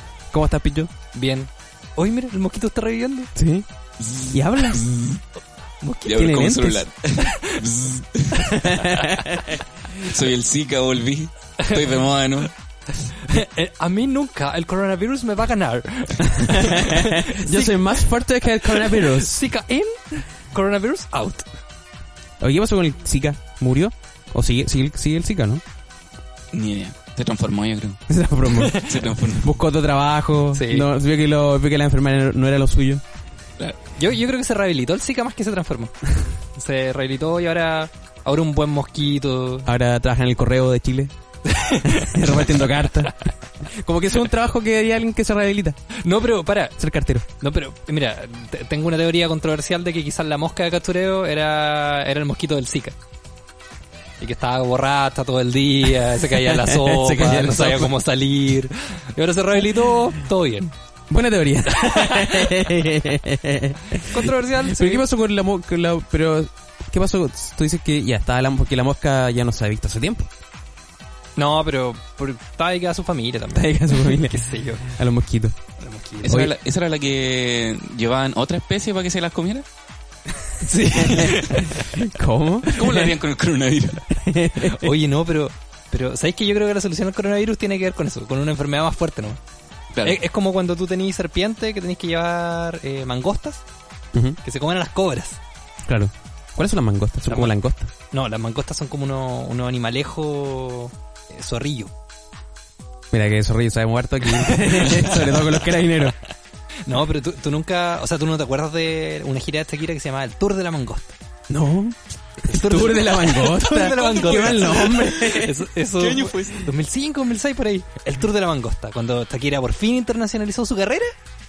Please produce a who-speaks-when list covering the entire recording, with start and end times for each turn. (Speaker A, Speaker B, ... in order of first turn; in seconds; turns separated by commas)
Speaker A: 0.3-0.9, Speaker B: 1.1-3.3, Speaker A: 3.4-3.7, Speaker C: 4.0-5.2, Speaker A: 4.3-4.9, Speaker B: 5.8-6.3, Speaker C: 6.1-8.6, Speaker A: 6.1-6.9, Speaker A: 8.4-9.6, Speaker C: 10.0-12.5, Speaker B: 11.6-11.9, Speaker B: 13.1-17.9, Speaker A: 16.4-19.4, Speaker B: 18.6-21.5, Speaker A: 22.4-25.6, Speaker C: 26.5-28.0, Speaker A: 28.1-33.0, Speaker C: 28.7-29.6, Speaker B: 30.5-30.9, Speaker B: 34.0-39.7, Speaker A: 39.7-41.1, Speaker B: 41.5-42.8, Speaker A: 41.8-45.8, Speaker B: 46.0-46.8, Speaker A: 46.8-47.3, Speaker B: 47.4-53.0, Speaker B: 54.2-60.7, Speaker A: 56.5-57.9, Speaker A: 61.1-70.3, Speaker B: 61.7-62.5, Speaker B: 64.0-65.0, Speaker B: 71.4-74.9, Speaker A: 73.5-75.6, Speaker B: 75.8-76.4, Speaker A: 76.2-76.5, Speaker C: 76.2-79.7, Speaker B: 80.6-82.0, Speaker A: 81.9-83.1, Speaker C: 82.7-84.1, Speaker A: 84.1-84.9, Speaker B: 84.6-89.4, Speaker C: 89.9-90.2, Speaker B: 90.0-93.7, Speaker B: 94.4-95.4, Speaker A: 95.9-97.9, Speaker B: 97.3-97.6, Speaker B: 98.1-101.9, Speaker A: 103.1-106.2, Speaker B: 104.3-105.7, Speaker B: 106.9-111.2, Speaker A: 111.5-115.7, Speaker B: 112.4-121.2, Speaker C: 113.8-115.4, Speaker C: 115.9-116.7